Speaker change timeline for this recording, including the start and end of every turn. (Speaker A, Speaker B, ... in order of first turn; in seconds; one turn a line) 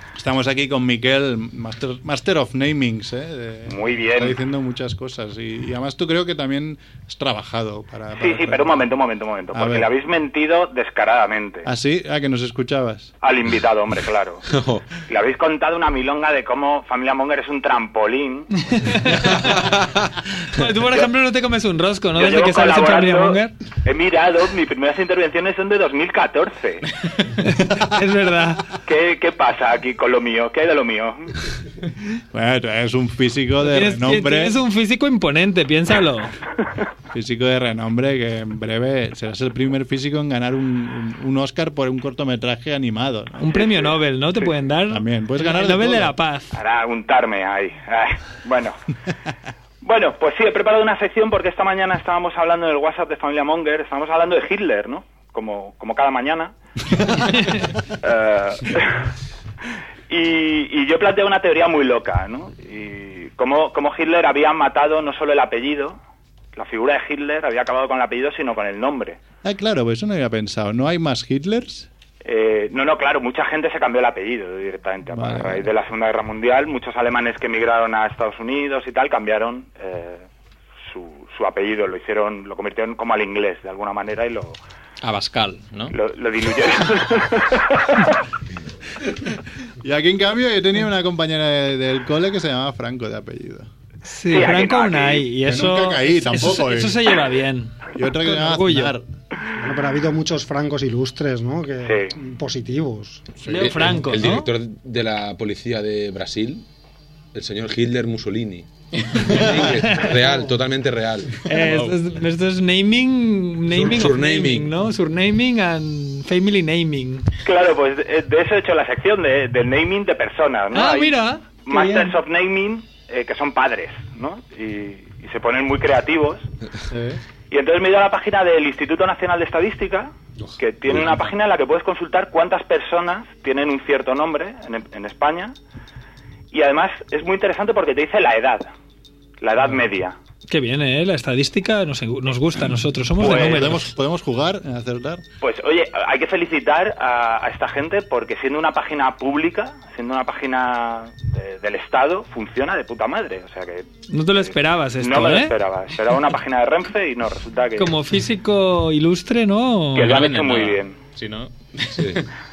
Speaker A: 0.2-8.9
Speaker B: 3.7-4.4
Speaker B: 8.1-11.7
Speaker A: 9.5-9.9
Speaker A: 11.7-13.1
Speaker B: 13.2-14.4
Speaker C: 14.5-14.9
Speaker B: 15.1-18.5
Speaker D: 18.6-19.6
Speaker C: 19.1-20.2
Speaker D: 20.5-23.6
Speaker B: 22.1-26.9
Speaker D: 27.4-28.7
Speaker B: 28.8-31.4
Speaker A: 32.3-34.6
Speaker D: 33.6-36.3
Speaker A: 37.1-43.5
Speaker D: 43.4-46.5
Speaker B: 43.5-44.5
Speaker A: 44.9-46.1
Speaker B: 46.5-48.8
Speaker B: 49.8-56.5
Speaker B: 58.0-59.1
Speaker B: 60.1-66.0
Speaker B: 66.5-69.2
Speaker A: 69.4-71.9
Speaker B: 72.2-80.3
Speaker A: 75.1-75.7
Speaker B: 80.8-84.6
Speaker E: 85.0-86.0
Speaker B: 85.9-88.2
Speaker A: 89.8-93.7
Speaker D: 94.1-99.0
Speaker B: 94.3-95.3
Speaker A: 95.4-97.1
Speaker A: 97.9-99.1
Speaker F: 99.6-103.3
Speaker B: 101.8-102.2
Speaker A: 103.4-103.9
Speaker D: 103.5-104.5
Speaker C: 103.6-106.7
Speaker C: 107.3-111.4
Speaker D: 111.5-117.3
Speaker E: 111.7-111.9
Speaker C: 113.7-114.7
Speaker B: 117.5-126.5
Speaker D: 120.7-122.2
Speaker A: 126.9-127.2
Speaker B: 127.5-135.6
Speaker C: 130.4-131.2
Speaker B: 136.5-138.7
Speaker B: 139.4-140.2
Speaker D: 140.5-143.9
Speaker B: 143.2-143.8
Speaker A: 143.2-145.2
Speaker B: 145.4-157.9
Speaker D: 154.1-155.6
Speaker D: 157.8-160.1
Speaker B: 159.9-161.0
Speaker E: 160.0-162.3
Speaker C: 161.9-162.2